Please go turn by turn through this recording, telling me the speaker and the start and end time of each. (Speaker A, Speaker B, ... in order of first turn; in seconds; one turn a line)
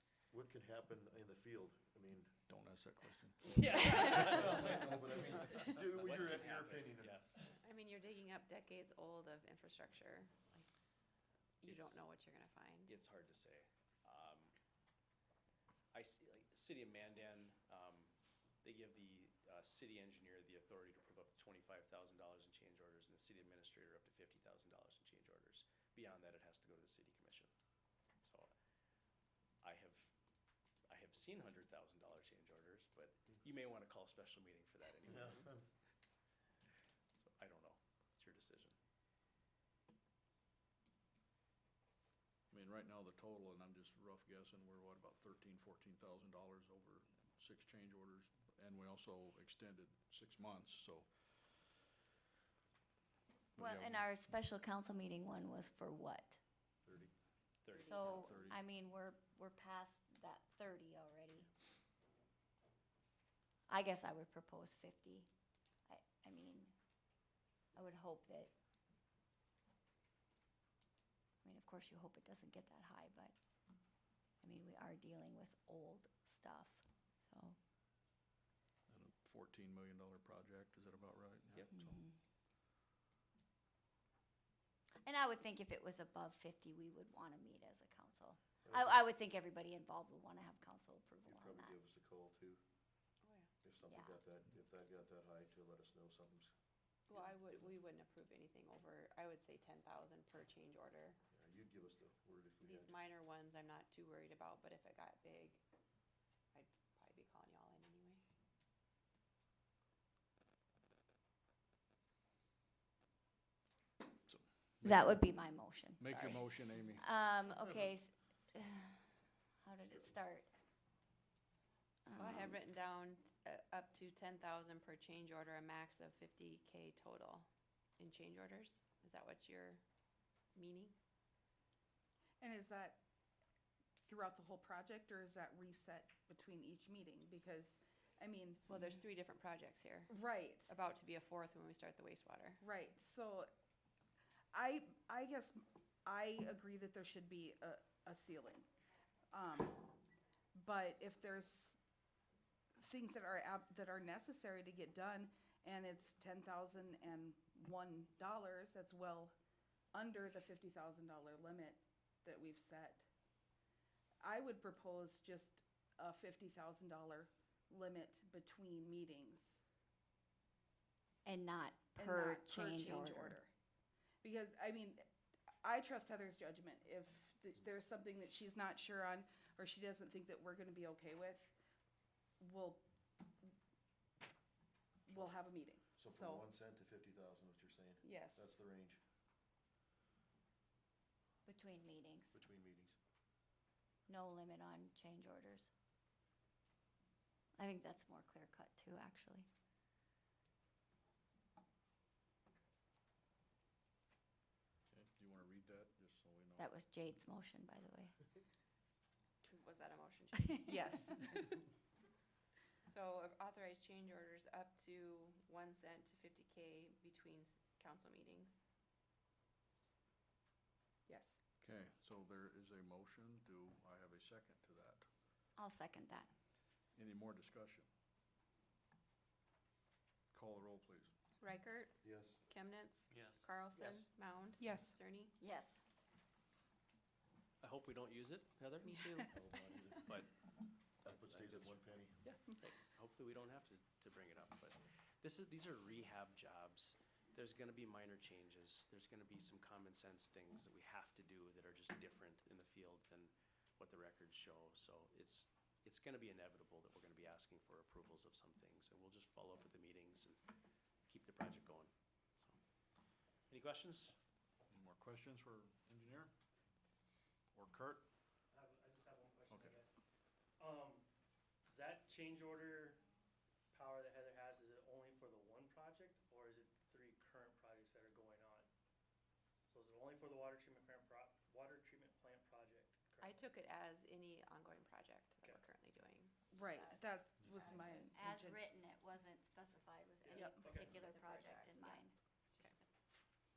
Speaker A: 0.3-2.4
Speaker B: 2.5-3.6
Speaker C: 3.6-4.7
Speaker D: 3.8-4.3
Speaker A: 3.9-7.5
Speaker B: 4.3-4.9
Speaker C: 5.6-7.4
Speaker E: 7.6-10.7
Speaker E: 11.6-12.9
Speaker C: 11.7-12.1
Speaker C: 12.9-14.5
Speaker C: 15.9-27.5
Speaker C: 28.2-28.5
Speaker C: 29.6-30.1
Speaker C: 30.9-35.5
Speaker A: 35.0-35.6
Speaker C: 37.1-38.8
Speaker B: 42.5-51.7
Speaker B: 53.6-54.1
Speaker D: 53.6-56.4
Speaker B: 56.9-57.1
Speaker C: 57.6-58.5
Speaker D: 57.9-61.5
Speaker B: 58.2-58.6
Speaker D: 63.7-65.3
Speaker D: 65.9-66.7
Speaker D: 67.7-68.5
Speaker D: 71.4-73.3
Speaker D: 74.4-77.6
Speaker B: 78.9-82.0
Speaker D: 81.7-82.1
Speaker D: 85.0-91.8
Speaker A: 88.6-89.0
Speaker A: 91.2-92.6
Speaker E: 93.2-93.5
Speaker A: 93.6-96.5
Speaker D: 93.8-94.2
Speaker E: 97.1-101.2
Speaker A: 101.3-103.0
Speaker E: 102.6-105.6
Speaker E: 106.5-108.2
Speaker B: 114.3-115.2
Speaker D: 114.8-120.5
Speaker B: 116.0-117.0
Speaker D: 122.1-122.6
Speaker E: 122.2-127.5
Speaker E: 128.0-129.8
Speaker E: 130.6-130.9
Speaker F: 132.4-133.0
Speaker F: 134.0-138.7
Speaker E: 138.7-140.1
Speaker F: 140.1-140.7
Speaker E: 140.6-142.6
Speaker F: 142.6-143.5
Speaker F: 144.5-148.7
Speaker F: 149.3-149.9
Speaker F: 150.5-151.8
Speaker F: 152.8-159.4
Speaker F: 159.9-163.1
Speaker F: 164.2-169.6
Speaker D: 171.2-173.4
Speaker F: 172.0-173.5
Speaker F: 174.2-175.1
Speaker F: 175.6-181.6
Speaker F: 182.4-182.9
Speaker F: 185.1-186.4
Speaker A: 185.1-185.4
Speaker A: 185.9-189.0
Speaker F: 188.0-188.5
Speaker D: 191.5-192.4
Speaker A: 192.3-193.0
Speaker D: 194.1-195.7
Speaker D: 197.6-199.5
Speaker B: 204.9-206.7
Speaker D: 206.6-208.2
Speaker E: 209.4-211.4
Speaker E: 212.8-218.6
Speaker F: 221.1-221.4
Speaker B: 221.6-225.1
Speaker D: 225.6-226.3
Speaker B: 226.9-227.9
Speaker B: 230.3-231.1
Speaker E: 231.4-235.3
Speaker A: 232.0-232.4
Speaker C: 233.1-234.0
Speaker F: 234.6-235.0
Speaker D: 235.4-235.8
Speaker C: 237.6-239.1
Speaker E: 238.8-239.3
Speaker A: 239.2-240.2
Speaker C: 240.0-240.3
Speaker A: 241.0-242.2
Speaker C: 241.1-260.4
Speaker C: 261.1-262.6
Speaker C: 263.5-264.1
Speaker B: 264.7-266.3
Speaker B: 267.5-268.1
Speaker G: 268.5-269.9
Speaker B: 269.5-269.8
Speaker G: 270.6-271.1
Speaker G: 271.7-273.0
Speaker G: 273.7-278.7
Speaker G: 279.7-283.4
Speaker E: 283.2-288.3
Speaker G: 285.4-285.7
Speaker F: 286.5-288.6
Speaker D: 287.7-292.8
Speaker G: 290.2-291.0
Speaker E: 290.4-292.8